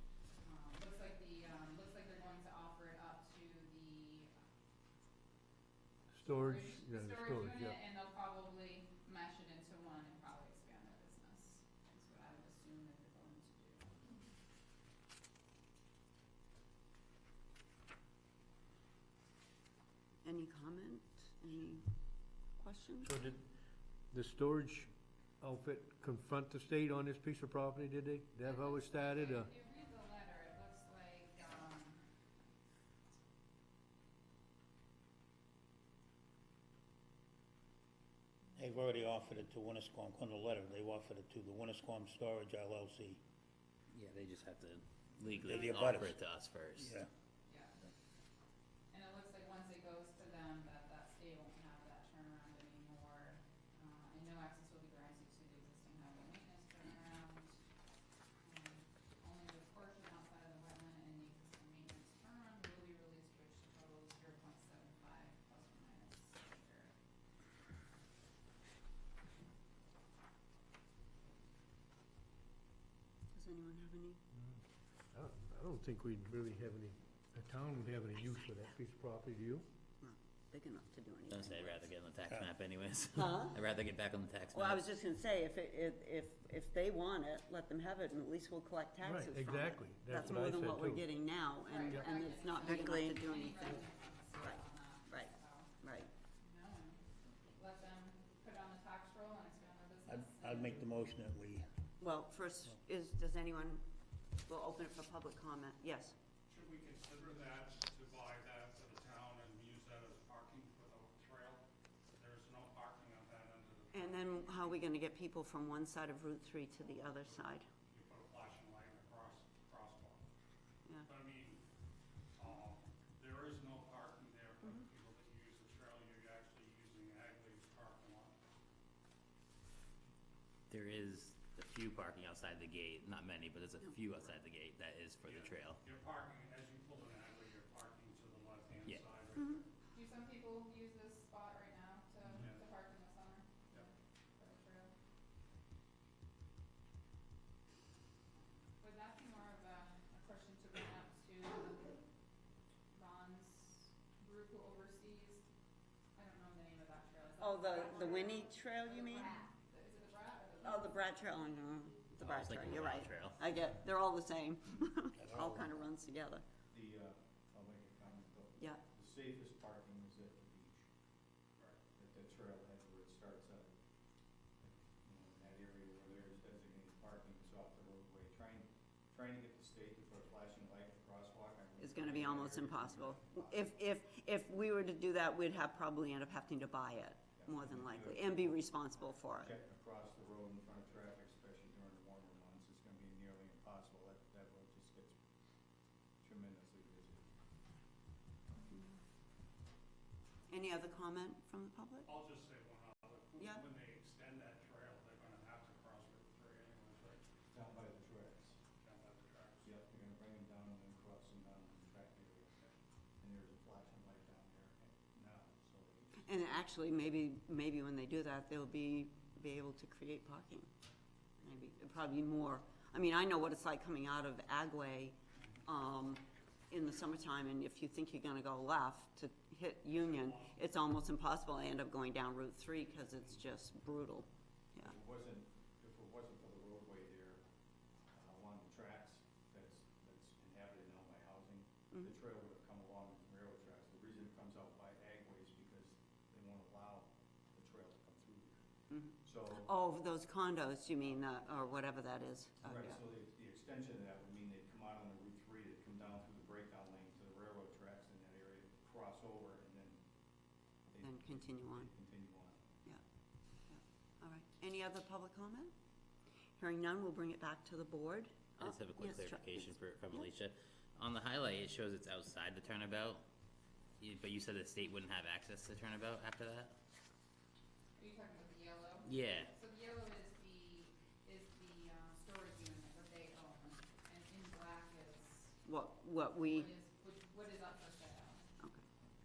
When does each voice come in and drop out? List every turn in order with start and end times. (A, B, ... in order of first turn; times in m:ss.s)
0:00.4-0:04.3 A
0:06.1-0:07.8 B
0:06.2-0:14.0 A
0:20.2-0:21.9 C
0:22.6-0:23.1 C
0:23.0-0:23.5 B
0:24.1-0:29.5 B
0:28.4-0:32.0 A
0:38.6-0:43.2 D
0:43.9-0:47.0 E
0:45.4-0:46.2 D
0:46.8-0:47.1 D
0:47.5-0:47.8 A
0:48.9-0:57.6 A
0:58.4-1:06.9 A
1:13.3-1:14.2 C
1:14.3-1:14.6 B
1:15.1-1:19.7 B
1:20.0-1:21.9 C
1:21.3-1:24.8 E
1:23.1-1:23.6 C
1:24.5-1:33.8 C
1:29.0-1:31.1 B
1:31.7-1:35.7 A
1:34.4-1:36.1 C
1:36.4-1:40.8 A
1:40.1-1:41.7 D
1:42.0-1:43.8 C
1:44.5-1:46.2 C
1:46.5-1:51.6 F
1:52.2-1:54.9 F
1:53.9-1:57.7 C
1:57.9-2:00.3 F
2:01.0-2:01.6 F
2:02.4-2:08.4 F
2:10.7-2:15.8 E
2:15.2-2:19.6 F
2:19.9-2:24.9 A
2:28.8-2:32.0 A
2:32.9-2:35.4 A
2:36.2-2:41.0 A
2:37.4-2:39.4 C
2:40.6-2:46.4 C
2:42.2-2:43.4 E
2:45.2-2:45.9 D
2:46.7-2:50.9 G
2:52.0-2:53.7 G
2:54.6-3:03.7 G
3:01.8-3:09.6 C
3:07.4-3:08.6 G
3:09.4-3:15.2 G
3:16.2-3:17.3 G
3:18.7-3:19.0 C
3:20.5-3:22.1 C
3:22.1-3:27.2 F
3:23.4-3:23.7 C
3:27.5-3:28.6 G
3:28.8-3:29.8 F
3:29.6-3:36.4 G
3:36.2-3:40.7 C
3:41.4-3:54.9 C
3:49.9-3:50.6 F
3:54.8-3:57.4 G
3:58.1-4:09.7 G
4:08.9-4:13.0 C
4:12.6-4:20.0 G
4:20.9-4:22.6 G
4:21.0-4:21.9 C
4:23.7-4:25.7 C
4:26.6-4:30.2 C
4:28.6-4:33.2 E
4:34.0-4:36.7 E
4:38.0-4:45.6 A
4:39.0-4:39.5 E
4:45.6-4:46.7 C
4:46.4-4:48.5 A